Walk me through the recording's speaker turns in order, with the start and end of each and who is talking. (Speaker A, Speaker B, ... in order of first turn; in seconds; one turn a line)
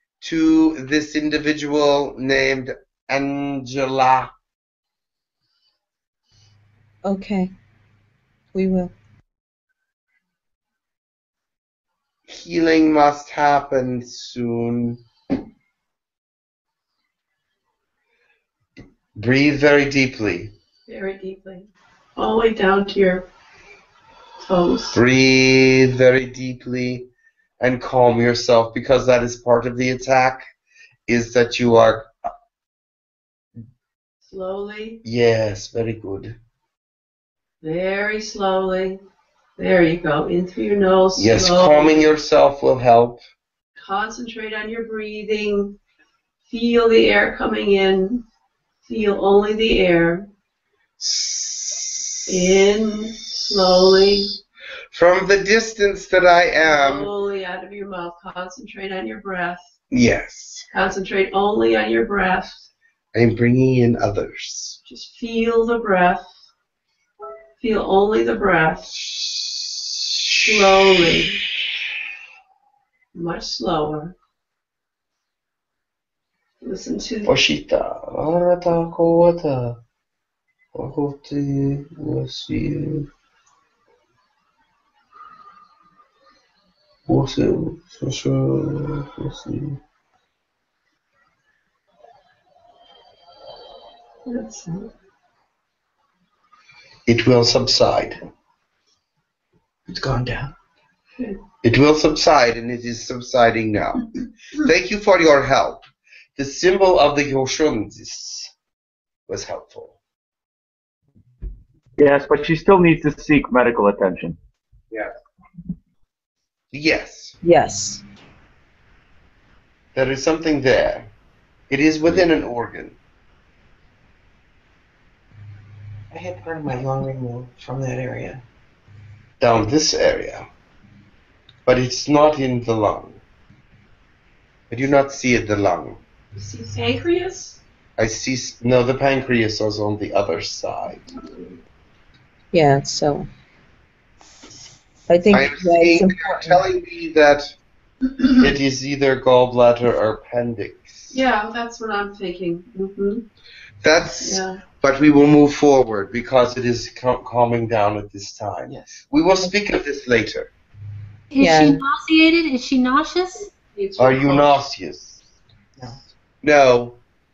Speaker A: 0.2-4.3
Speaker B: 7.0-7.5
Speaker B: 8.5-8.9
Speaker A: 12.3-15.0
Speaker A: 19.1-20.5
Speaker C: 20.9-23.3
Speaker C: 24.4-25.0
Speaker A: 24.9-27.1
Speaker A: 27.6-30.5
Speaker A: 31.1-32.1
Speaker C: 34.3-35.0
Speaker A: 35.0-36.4
Speaker C: 37.6-39.0
Speaker C: 39.6-42.1
Speaker A: 41.1-43.2
Speaker C: 43.8-45.8
Speaker C: 46.5-48.2
Speaker C: 48.8-50.3
Speaker A: 51.0-52.7
Speaker C: 52.3-54.4
Speaker A: 53.4-54.2
Speaker A: 54.9-57.1
Speaker C: 56.6-59.7
Speaker A: 59.9-60.7
Speaker C: 60.7-62.7
Speaker A: 63.1-64.8
Speaker C: 64.8-66.4
Speaker C: 67.6-69.0
Speaker A: 69.0-71.0
Speaker C: 70.4-71.4
Speaker C: 73.1-74.1
Speaker C: 76.6-77.3
Speaker A: 77.2-79.8
Speaker A: 80.7-83.1
Speaker A: 87.1-89.8
Speaker C: 94.2-94.9
Speaker A: 97.1-98.2
Speaker D: 99.9-100.5
Speaker A: 101.6-105.8
Speaker A: 106.4-108.5
Speaker A: 109.3-110.0
Speaker E: 112.0-114.4
Speaker A: 116.7-117.3
Speaker B: 117.4-118.0
Speaker A: 119.9-121.1
Speaker A: 121.7-123.0
Speaker D: 126.1-128.4
Speaker A: 129.4-130.5
Speaker A: 131.7-133.2
Speaker A: 134.7-136.0
Speaker C: 136.3-137.6
Speaker A: 138.0-141.1
Speaker B: 142.5-143.3
Speaker B: 145.1-146.6
Speaker A: 145.3-147.5
Speaker A: 148.3-151.1
Speaker C: 151.1-153.2
Speaker A: 153.8-160.5
Speaker C: 154.2-154.6
Speaker F: 161.3-163.6
Speaker B: 161.4-161.8
Speaker C: 163.6-164.6
Speaker A: 164.0-165.2
Speaker A: 166.4-167.0